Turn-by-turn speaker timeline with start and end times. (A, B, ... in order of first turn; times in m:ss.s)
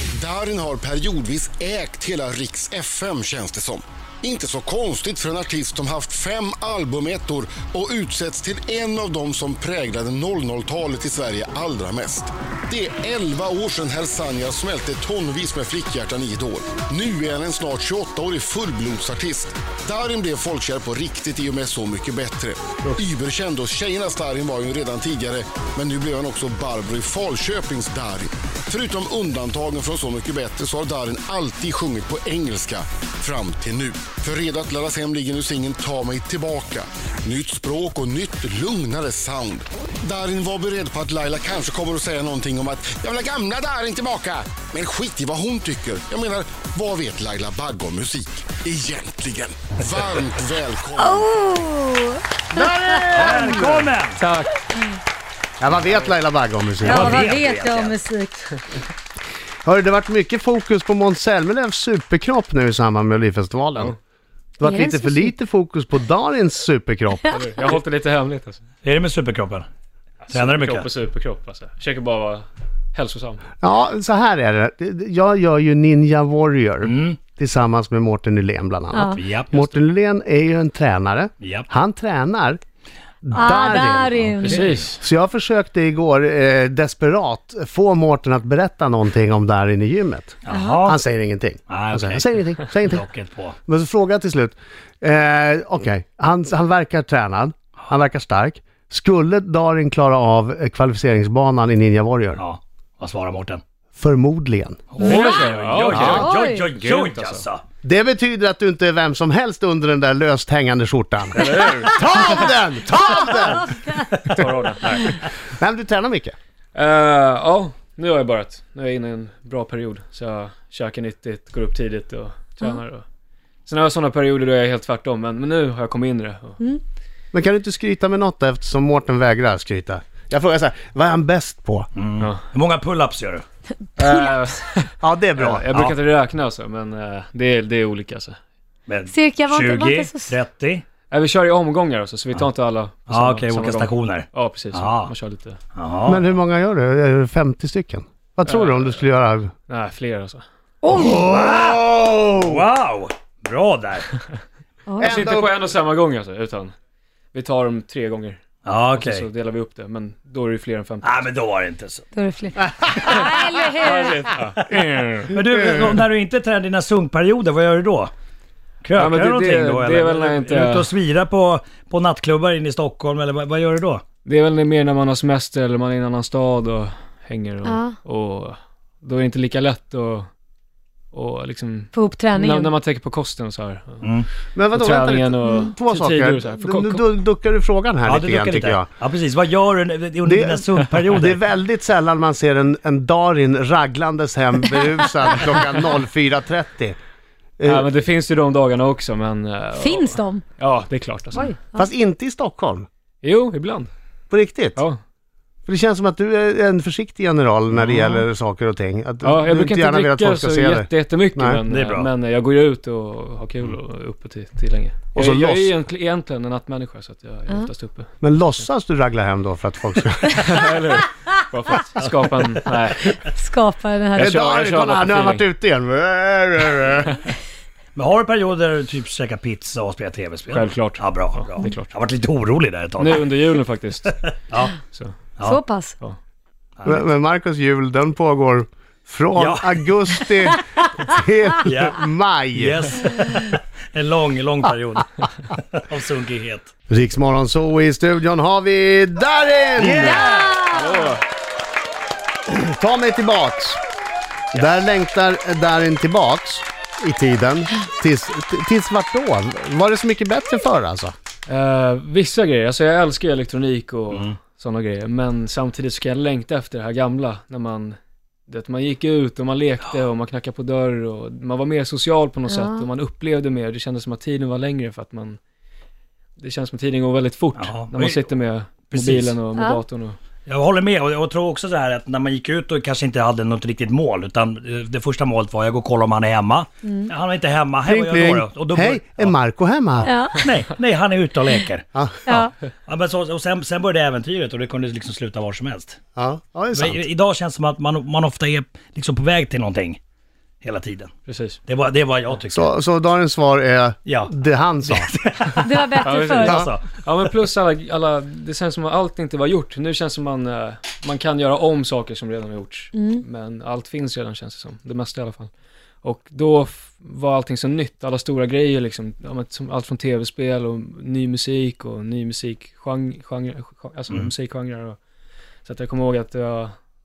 0:00.1-0:51.3 A
0:51.0-0:53.6 B
0:52.5-0:53.9 C
0:53.1-0:54.2 D
0:54.2-0:54.6 E
0:55.6-0:57.4 C
0:56.8-0:58.0 D
0:56.8-0:58.6 B
0:59.6-1:04.0 C
1:04.6-1:07.4 C
1:04.6-1:05.3 B
1:07.2-1:07.6 B
1:07.3-1:08.6 E
1:08.8-1:09.7 D
1:10.2-1:13.4 E
1:10.3-1:10.9 D
1:13.6-1:22.6 C
1:16.8-1:17.2 D
1:18.9-1:19.2 B
1:19.2-1:19.7 D
1:21.4-1:21.7 D
1:23.2-1:33.0 C
1:23.3-1:24.6 B
1:24.4-1:25.1 E
1:30.4-1:31.0 D
1:30.5-1:30.8 B
1:31.7-1:33.6 D
1:33.7-1:42.4 C
1:42.4-1:43.6 D
1:44.0-1:44.9 C
1:44.9-1:47.6 D
1:45.0-1:47.4 E
1:45.0-1:46.7 B
1:45.8-1:46.3 C
1:47.8-1:56.4 C
1:51.3-1:52.2 E
1:52.1-1:54.1 B
1:54.2-1:55.2 E
1:56.8-2:03.0 E
2:03.7-2:06.6 E
2:07.3-2:11.9 C
2:12.0-2:13.4 D
2:14.0-2:18.4 E
2:14.0-2:14.3 B
2:15.0-2:15.7 C
2:15.7-2:16.0 D
2:18.9-2:20.8 D
2:19.1-2:20.3 B
2:21.1-2:25.6 E
2:23.1-2:25.1 D
2:25.8-2:26.3 D
2:26.0-2:29.5 C
2:28.4-2:29.1 E
2:29.7-2:30.4 E
2:30.8-2:31.2 B
2:30.9-2:32.7 C
2:31.2-2:31.8 D
2:32.4-2:34.1 D
2:34.9-2:35.2 B
2:35.0-2:35.6 C
2:35.0-2:36.8 E
2:37.3-2:38.4 E
2:38.6-2:39.3 D
2:38.9-2:41.3 E
2:41.0-2:42.0 D
2:42.2-2:44.3 B
2:42.8-2:43.1 C
2:43.8-2:45.4 E
2:45.3-2:48.1 D
2:45.6-2:46.0 C
2:48.8-2:54.0 D
2:49.0-2:50.9 E
2:54.2-3:00.3 E
2:57.6-2:58.0 B
3:01.1-3:04.1 E
3:01.9-3:02.7 B
3:04.0-3:04.3 D
3:04.6-3:08.9 C
3:04.7-3:07.0 E
3:08.0-3:11.4 D
3:10.2-3:17.0 C
3:17.6-3:17.9 C
3:17.6-3:21.5 E
3:19.8-3:20.4 B
3:21.4-3:21.9 B
3:21.8-3:22.9 C
3:23.2-3:23.9 E
3:24.3-3:24.8 C
3:25.7-3:31.6 C
3:27.7-3:28.2 D
3:29.2-3:38.2 E
3:31.7-3:32.1 D
3:35.2-3:35.7 C
3:38.2-3:40.4 C
3:40.4-3:43.2 E
3:43.3-3:44.3 B
3:44.2-3:45.5 E
3:44.2-3:47.2 C
3:48.0-3:53.2 D
3:50.5-3:51.9 E
3:53.0-3:54.2 E
3:54.5-3:54.8 D
3:54.9-3:55.2 E
3:55.4-3:56.0 B
3:56.8-3:57.0 D
3:56.8-4:02.9 C
3:59.4-3:59.8 D
4:01.6-4:02.0 D
4:02.6-4:06.7 D
4:06.9-4:10.3 C
4:09.8-4:10.5 D
4:10.0-4:11.1 B
4:10.7-4:11.2 E
4:12.5-4:13.8 C
4:14.5-4:21.1 C
4:21.5-4:35.4 E
4:32.5-4:32.9 B
4:36.4-4:40.2 E
4:37.6-4:38.3 D
4:38.9-4:39.4 D
4:39.6-4:39.8 B
4:40.5-4:49.4 D
4:47.8-4:50.1 C
4:50.0-4:50.4 B
4:50.1-4:51.8 D
4:51.9-4:52.3 C
4:52.2-4:52.5 B
4:52.9-4:56.0 D
4:56.2-4:57.0 C
4:56.7-5:00.0 D
5:00.6-5:01.1 D
5:01.3-5:01.6 E
5:01.7-5:02.7 D
5:02.5-5:05.2 C
5:04.1-5:04.3 D
5:04.8-5:07.0 D
5:05.6-5:06.6 B
5:06.0-5:25.0 E
5:12.9-5:13.2 B
5:25.6-5:26.8 E